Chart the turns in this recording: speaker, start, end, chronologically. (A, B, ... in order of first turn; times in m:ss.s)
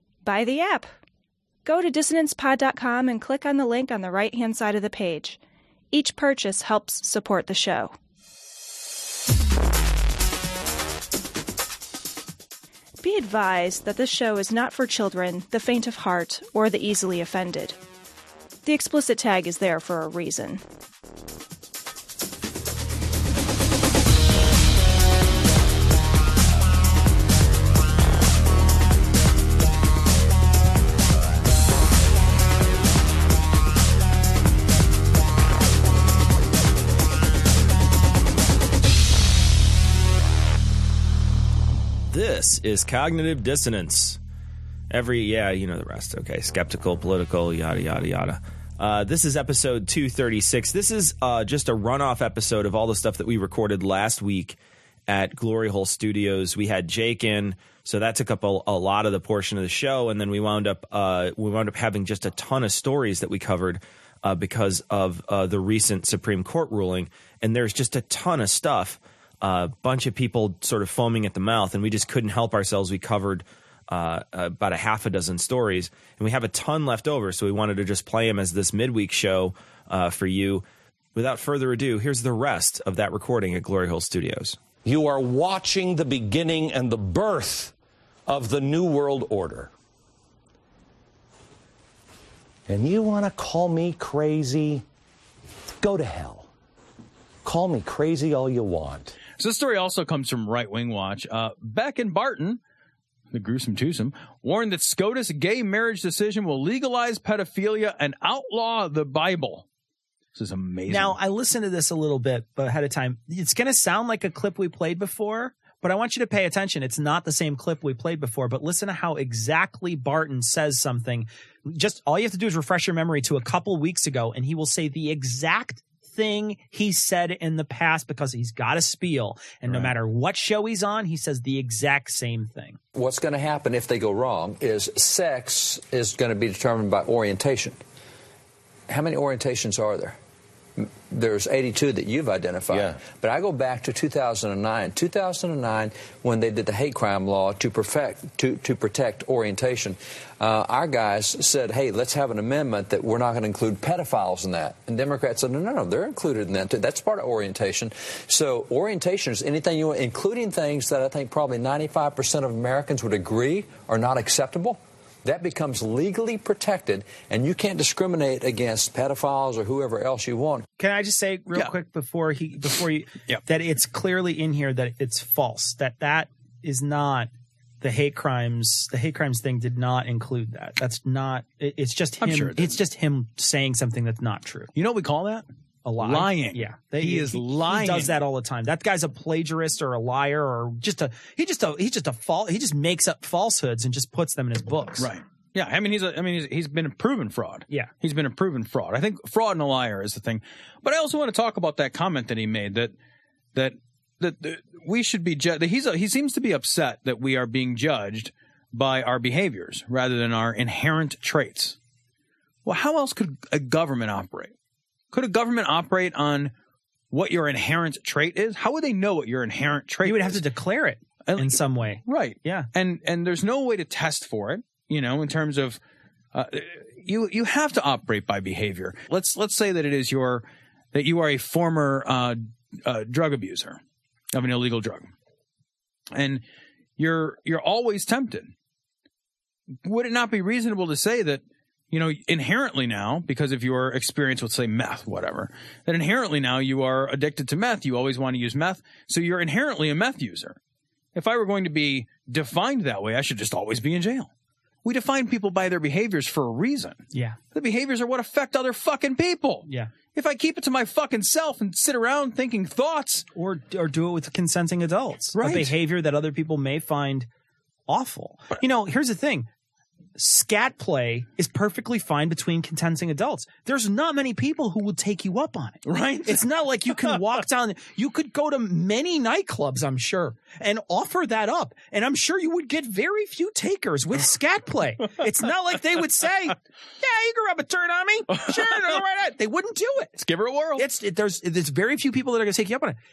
0:00.2-0:00.9 A
0:01.6-0:05.4 A
0:05.9-0:07.9 A
0:13.0-0:17.8 A
0:18.6-0:20.6 A
0:42.1-0:44.2 B
0:44.9-0:54.6 B
0:55.1-1:20.6 B
1:21.1-1:24.6 B
1:24.8-1:27.7 C
1:28.3-1:29.7 C
1:32.7-1:34.8 C
1:35.8-1:36.5 C
1:37.4-1:39.2 C
1:39.4-1:42.6 D
1:43.3-1:49.6 D
1:50.3-1:51.2 D
1:50.9-2:12.8 E
2:12.9-2:17.8 F
2:18.9-2:20.2 F
2:20.8-2:50.6 F
2:22.7-2:23.0 C
2:50.8-2:57.3 E
2:57.8-3:04.7 E
3:02.2-3:02.8 D
3:04.7-3:05.4 D
3:05.8-3:15.1 E
3:06.0-3:08.1 D
3:15.0-3:22.9 D
3:23.5-3:31.8 D
3:32.6-3:34.5 D
3:35.1-3:36.5 D
3:37.1-3:40.4 D
3:40.0-3:42.7 E
3:41.2-3:45.8 D
3:46.3-3:53.8 D
3:54.3-3:55.1 D
3:56.1-3:56.4 D
3:57.0-3:58.5 D
3:59.8-4:10.6 D
4:11.1-4:14.3 D
4:14.8-4:17.0 D
4:17.5-4:23.2 D
4:19.6-4:19.9 E
4:23.3-4:27.3 E
4:25.3-4:25.7 D
4:27.9-4:29.5 E
4:30.2-4:50.2 E
4:35.8-4:37.2 D
4:48.3-4:49.0 D
4:50.2-4:50.8 D
4:50.8-4:53.0 E